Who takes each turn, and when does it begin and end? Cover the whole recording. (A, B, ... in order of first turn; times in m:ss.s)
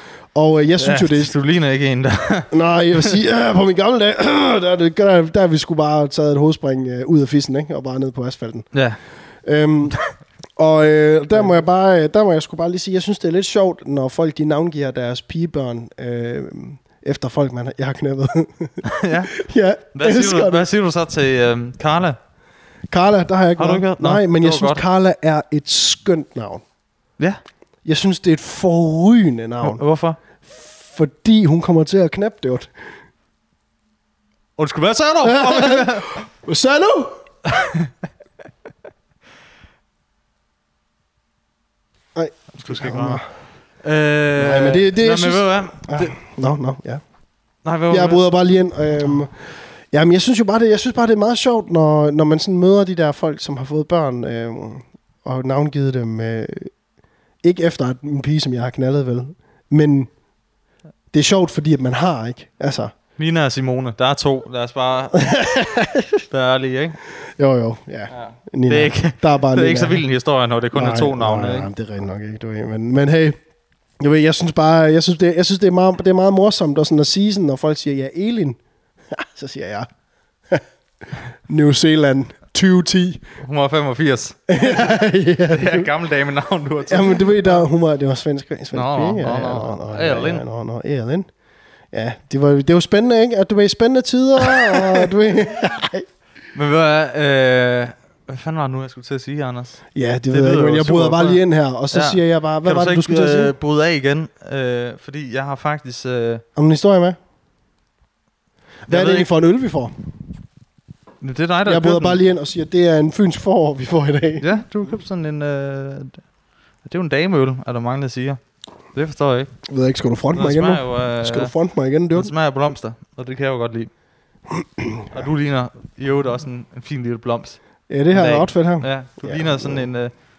0:00.3-0:01.3 A
0:00.8-0:03.1 B
0:02.5-0:08.7 A
0:08.7-0:09.0 B
0:09.4-0:10.0 A
0:10.6-0:20.6 A
0:18.8-0:19.4 B
0:19.9-0:22.2 B
0:22.9-0:26.6 A
0:23.6-0:24.8 B
0:27.8-0:29.8 A
0:29.6-0:30.2 B
0:30.4-0:32.7 A
0:34.6-0:36.2 B
0:35.2-0:37.2 A
0:37.5-0:37.9 B
0:42.1-0:43.2 A
0:42.5-0:43.2 B
0:43.8-0:46.1 B
0:44.4-0:47.0 A
0:47.6-0:48.2 B
0:47.9-0:56.7 A
0:57.4-1:00.1 A
1:01.1-1:02.9 A
1:03.2-1:05.2 B
1:05.2-1:06.2 A
1:06.3-1:07.0 B
1:07.4-1:10.0 A
1:08.1-1:11.7 B
1:10.7-1:13.4 A
1:14.0-1:18.6 A
1:19.1-1:19.9 A
1:21.5-1:23.2 A
1:23.4-1:27.6 B
1:24.5-1:25.9 A
1:26.9-1:31.3 A
1:28.7-1:30.4 B
1:31.9-1:36.0 A
1:34.6-1:35.0 B
1:36.5-1:46.4 B
1:39.9-1:43.5 A
1:46.6-1:47.2 A
1:48.9-1:49.9 A
1:48.9-1:49.3 B
1:51.2-1:52.2 B
1:51.6-1:54.4 A
1:54.4-1:56.2 B
1:56.8-1:58.4 B
1:58.9-1:59.5 B
1:59.6-2:02.3 A
2:00.3-2:01.5 B
2:02.1-2:03.9 B
2:04.5-2:05.1 A
2:05.1-2:07.6 B
2:07.9-2:09.9 A
2:08.1-2:10.1 B